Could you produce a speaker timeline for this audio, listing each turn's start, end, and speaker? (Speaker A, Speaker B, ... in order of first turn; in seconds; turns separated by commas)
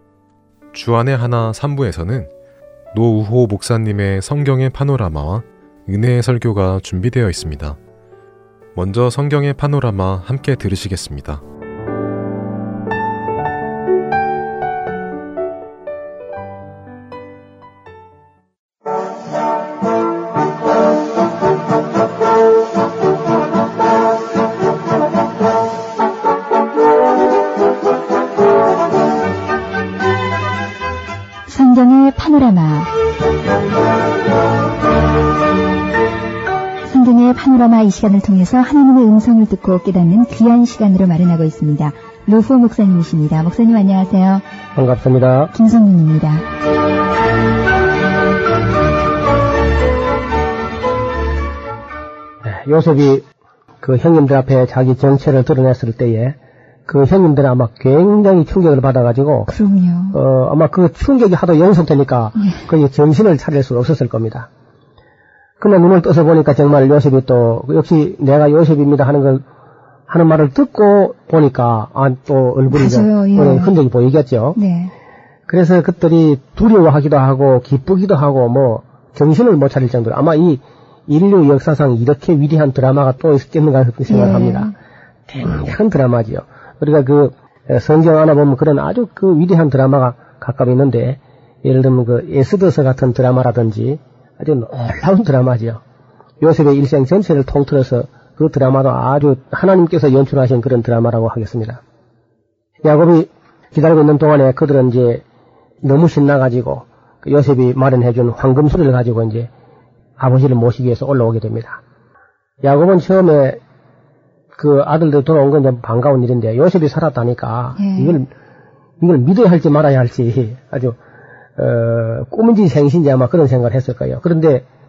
Speaker A: 0.7-2.3, Speaker A: 2.9-7.8, Speaker A: 8.8-11.4, Speaker B: 31.5-32.9, Speaker B: 36.9-44.4, Speaker C: 44.8-45.5, Speaker B: 45.5-46.5, Speaker C: 52.5-53.2, Speaker C: 53.8-59.5, Speaker B: 59.5-60.2, Speaker C: 60.1-64.5, Speaker B: 62.4-62.6, Speaker C: 65.6-69.4, Speaker C: 70.1-74.6, Speaker B: 72.7-73.8, Speaker B: 74.5-74.9, Speaker C: 75.5-84.7, Speaker B: 84.1-84.7, Speaker C: 85.3-95.8, Speaker C: 96.4-101.8, Speaker C: 102.8-105.2, Speaker C: 105.8-109.5, Speaker C: 110.2-111.8, Speaker C: 112.6-113.6, Speaker C: 114.5-118.3, Speaker B: 117.8-118.2, Speaker C: 119.0-121.0, Speaker C: 121.6-124.7